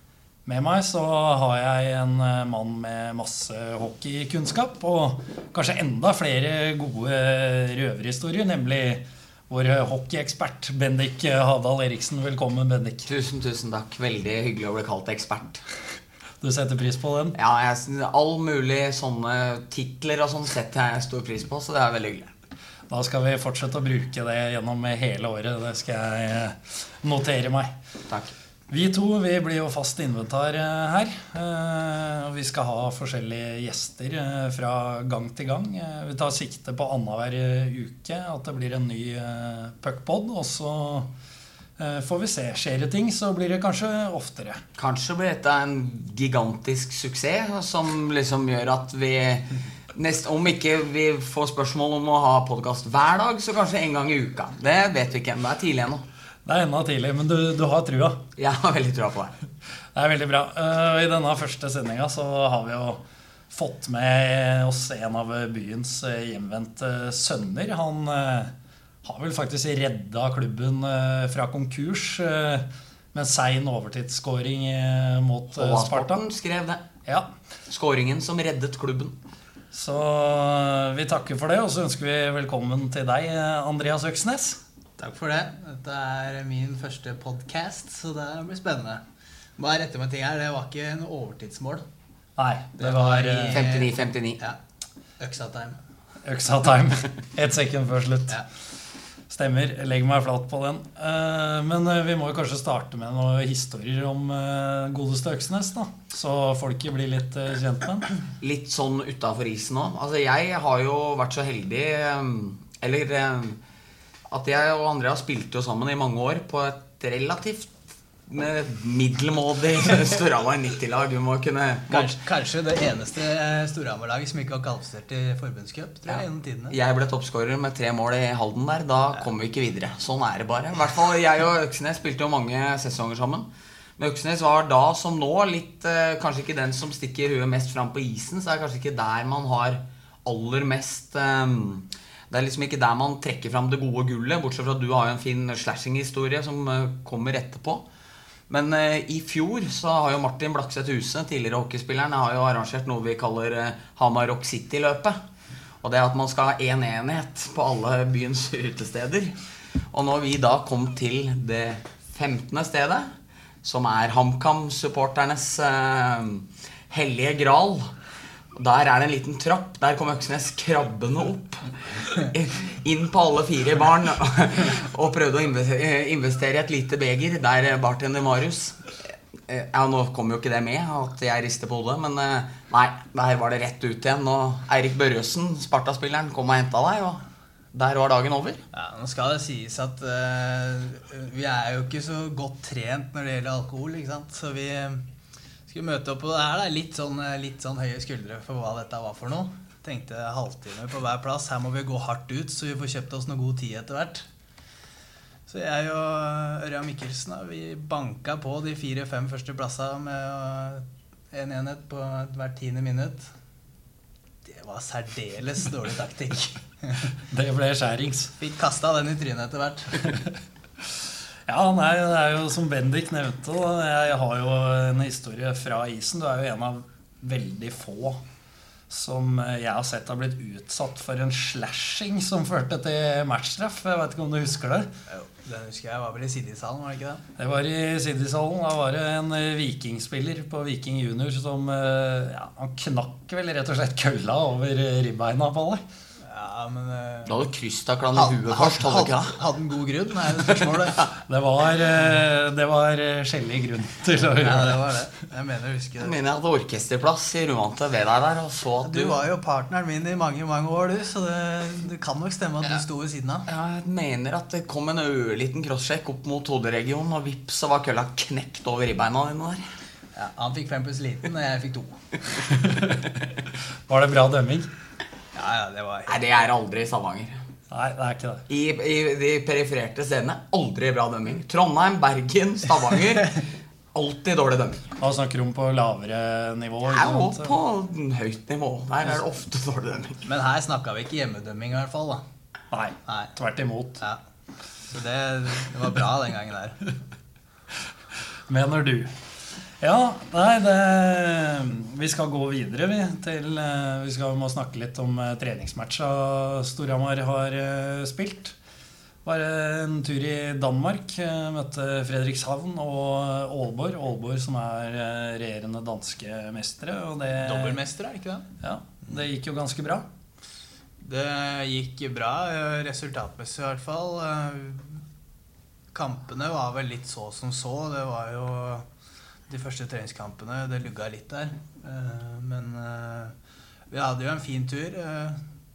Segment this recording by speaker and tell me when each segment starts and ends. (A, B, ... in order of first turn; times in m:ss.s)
0:00.4-0:13.1 A
0:13.1-0:15.6 B
0:16.4-0:17.4 A
0:17.3-0:22.3 B
0:22.9-0:27.7 A
0:28.7-0:41.1 A
0:41.8-0:44.6 A
0:44.8-0:56.0 B
0:56.4-0:58.2 A
0:58.4-0:59.3 B
0:59.9-1:08.5 A
1:09.0-1:16.2 A
1:15.5-1:16.8 B
1:17.7-1:19.2 B
1:19.7-1:24.6 A
1:25.0-1:29.0 C
1:29.6-1:31.8 C
1:32.4-1:33.6 A
1:32.8-1:34.6 C
1:33.5-1:34.4 B
1:35.2-1:35.8 C
1:36.2-1:38.4 A
1:39.3-1:48.1 A
1:48.4-1:53.6 B
1:54.3-1:57.7 B
1:58.3-2:02.1 B
2:01.9-2:06.8 C
2:06.1-2:27.8 B
2:28.5-2:35.2 B
2:35.8-2:39.4 B
2:39.9-2:43.1 B
2:43.6-2:47.9 B
2:48.5-3:07.2 B
3:07.7-3:08.6 B
3:08.7-3:15.0 C
3:15.7-3:24.2 C
3:25.5-3:33.3 C
3:34.4-3:37.1 C
3:37.2-3:38.3 A
3:38.4-3:40.1 C
3:41.5-3:48.2 A
3:48.9-3:54.9 A
3:55.1-3:57.2 C
3:57.4-4:05.8 A
4:06.2-4:07.4 C
4:07.2-4:09.4 B
4:08.1-4:11.1 C
4:10.4-4:11.1 B
4:11.1-4:14.8 A
4:14.4-4:16.1 C
4:16.0-4:19.2 B
4:18.8-4:23.5 C
4:23.5-4:29.6 B
4:30.1-4:32.3 C
4:32.4-4:33.3 A
4:33.9-4:34.7 A
4:35.3-4:36.2 C
4:36.1-4:37.4 B
4:37.7-4:38.4 A
4:38.5-4:43.4 B
4:43.9-4:44.9 B
4:45.0-4:47.5 A
4:46.9-4:50.2 B
4:50.2-4:52.2 C
4:52.7-4:54.0 A
4:53.1-4:53.3 C
4:54.9-4:56.8 C
4:58.5-4:59.1 A
4:59.8-5:08.5 A
5:09.2-5:17.8 A
5:17.4-5:18.4 C
5:18.6-5:20.0 A
5:21.0-5:25.0 C
5:25.9-5:28.8 C
5:29.5-5:33.3 C
5:33.9-5:35.4 C